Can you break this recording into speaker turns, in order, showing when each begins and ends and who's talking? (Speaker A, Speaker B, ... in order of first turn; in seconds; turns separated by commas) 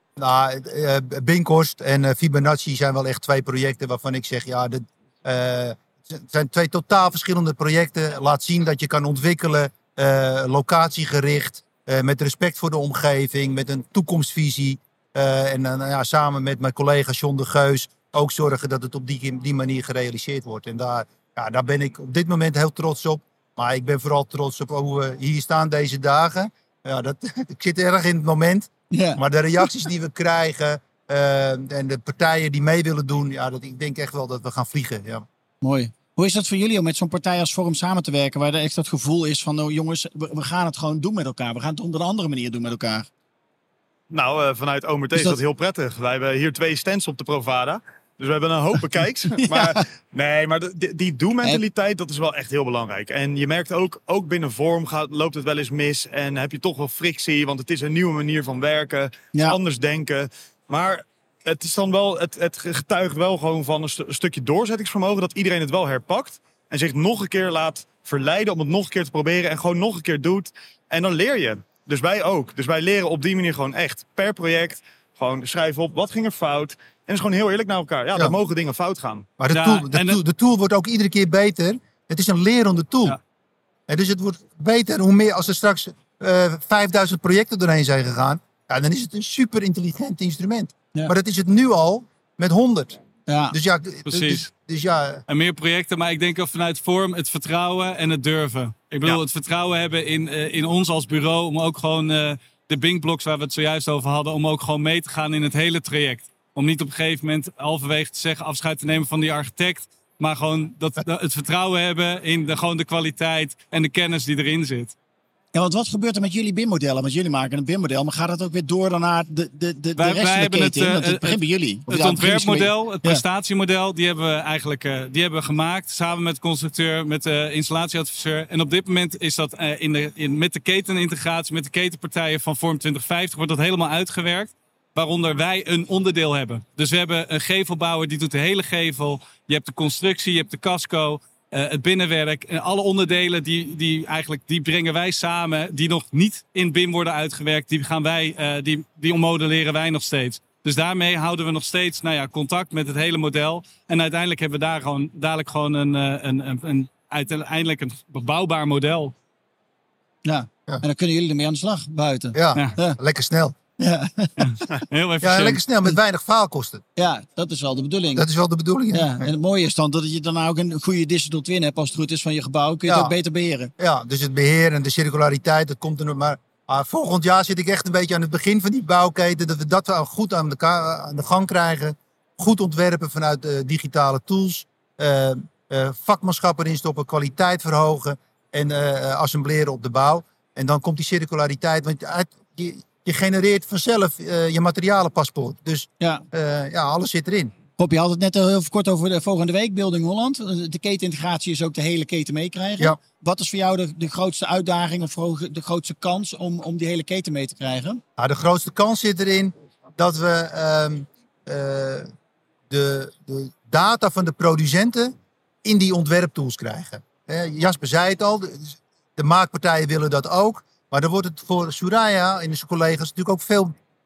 Speaker A: 0.2-35.2, Speaker B: 28.9-29.2, Speaker B: 35.6-43.1, Speaker C: 44.1-79.3, Speaker B: 45.1-45.4, Speaker B: 49.4-49.8, Speaker B: 59.3-59.6, Speaker A: 79.4-83.2, Speaker D: 79.5-80.2, Speaker A: 83.9-95.2, Speaker B: 93.3-93.6, Speaker D: 94.1-94.5, Speaker D: 95.3-114.9, Speaker B: 115.5-123.2, Speaker D: 120.0-159.2, Speaker B: 160.2-163.0, Speaker A: 162.3-163.6, Speaker B: 163.8-164.6, Speaker D: 164.4-165.6, Speaker A: 165.2-166.8, Speaker B: 167.0-168.2, Speaker A: 168.2-169.3, Speaker B: 168.9-173.7, Speaker A: 172.9-173.2, Speaker A: 173.8-197.5, Speaker B: 197.8-208.0, Speaker A: 208.2-212.1, Speaker A: 212.7-223.7